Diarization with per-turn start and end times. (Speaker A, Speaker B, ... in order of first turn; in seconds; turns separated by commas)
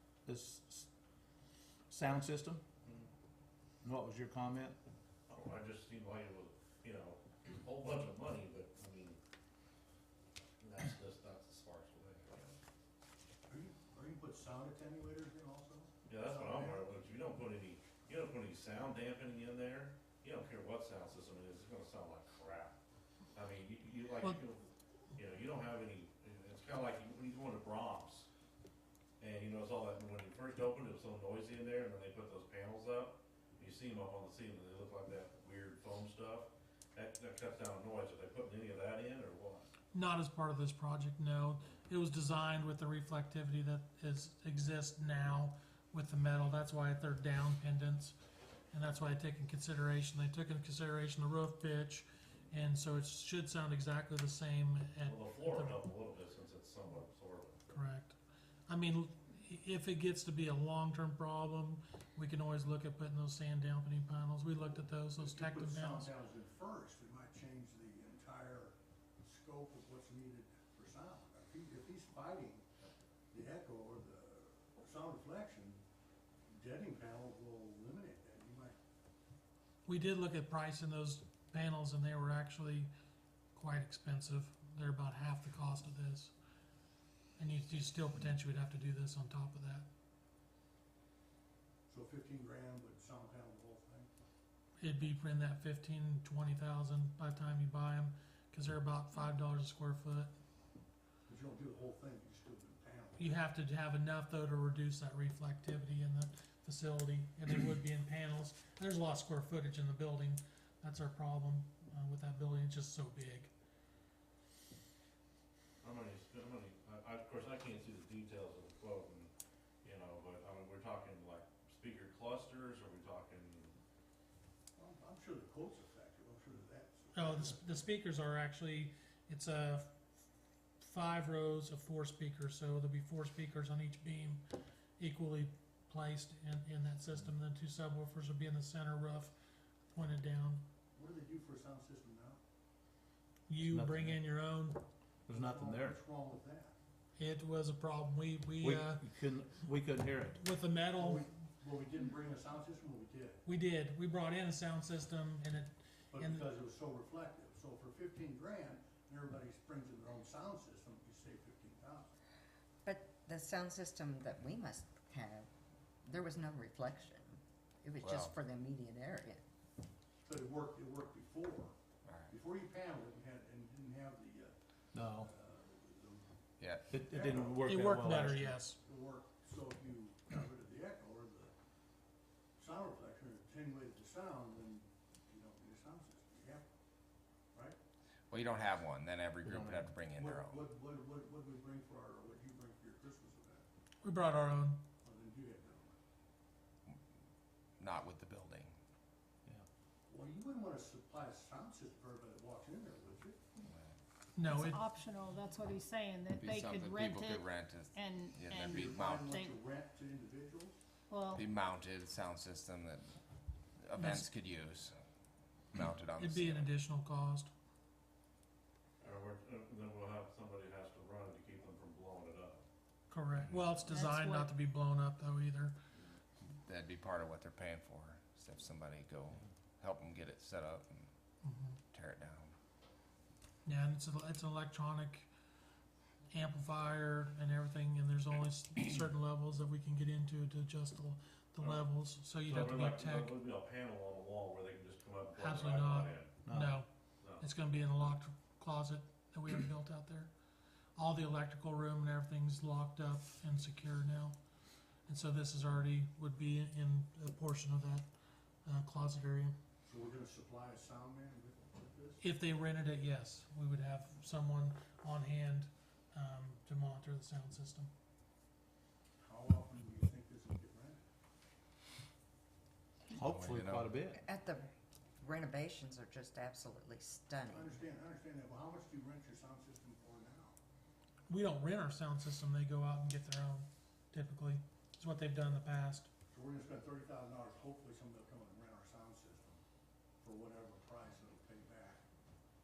Speaker A: 0.3-0.9, Speaker A: 1.9-2.6, Speaker A: 3.8-4.8, Speaker B: 5.3-9.2, Speaker B: 10.6-12.5, Speaker C: 13.5-16.9, Speaker B: 16.1-22.8, Speaker B: 23.3-28.3, Speaker B: 29.2-39.7, Speaker D: 39.9-48.1, Speaker D: 48.7-55.8, Speaker B: 55.0-57.8, Speaker D: 57.7-58.2, Speaker D: 58.7-66.1, Speaker C: 65.2-72.7, Speaker C: 73.3-75.8, Speaker C: 76.5-78.8, Speaker D: 79.9-82.9, Speaker D: 83.5-86.3, Speaker D: 87.4-89.9, Speaker C: 91.9-94.1, Speaker D: 94.8-100.3, Speaker C: 101.3-103.2, Speaker D: 103.2-113.5, Speaker B: 115.8-119.3, Speaker B: 119.8-123.7, Speaker C: 124.8-127.6, Speaker D: 127.1-129.9, Speaker D: 130.8-134.4, Speaker D: 135.0-139.3, Speaker D: 139.9-140.6, Speaker C: 140.9-142.4, Speaker D: 143.5-144.8, Speaker A: 143.7-144.2, Speaker A: 145.3-146.0, Speaker C: 145.3-146.7, Speaker D: 147.2-149.0, Speaker A: 148.6-150.4, Speaker D: 150.4-151.3, Speaker C: 151.0-153.4, Speaker D: 153.4-156.5, Speaker C: 156.1-162.1, Speaker E: 162.8-165.5, Speaker E: 166.0-169.4, Speaker F: 168.0-168.4, Speaker C: 170.2-171.7, Speaker C: 172.3-176.3, Speaker A: 174.9-175.3, Speaker F: 176.6-176.9, Speaker A: 176.9-178.6, Speaker C: 177.0-181.5, Speaker D: 177.7-178.8, Speaker C: 182.6-186.7, Speaker F: 188.3-190.6, Speaker A: 189.4-189.9, Speaker C: 190.2-193.7, Speaker D: 194.0-194.8, Speaker C: 195.0-196.0, Speaker F: 197.8-198.8, Speaker C: 200.1-203.4, Speaker D: 204.3-204.8, Speaker G: 204.4-209.6, Speaker F: 206.3-209.2, Speaker C: 208.7-210.8, Speaker G: 211.1-211.4, Speaker F: 211.3-213.1, Speaker F: 213.8-215.0, Speaker D: 214.0-214.3, Speaker F: 215.7-216.7, Speaker D: 216.2-217.5, Speaker B: 219.0-222.6, Speaker D: 223.1-225.8, Speaker G: 223.8-224.5, Speaker F: 226.5-231.1, Speaker D: 231.4-231.8, Speaker F: 231.9-232.5, Speaker D: 233.7-235.3, Speaker D: 236.3-243.3, Speaker B: 242.5-246.4, Speaker D: 245.4-246.9, Speaker A: 246.5-246.7, Speaker D: 247.4-250.3, Speaker D: 251.0-254.4, Speaker D: 255.1-258.1, Speaker D: 258.6-259.5, Speaker C: 259.9-262.2, Speaker D: 262.2-267.9, Speaker C: 269.2-271.0, Speaker A: 273.1-274.2, Speaker F: 273.2-274.0, Speaker E: 274.2-277.7, Speaker C: 277.5-280.6, Speaker D: 281.3-286.1, Speaker C: 286.3-289.6, Speaker C: 290.2-292.0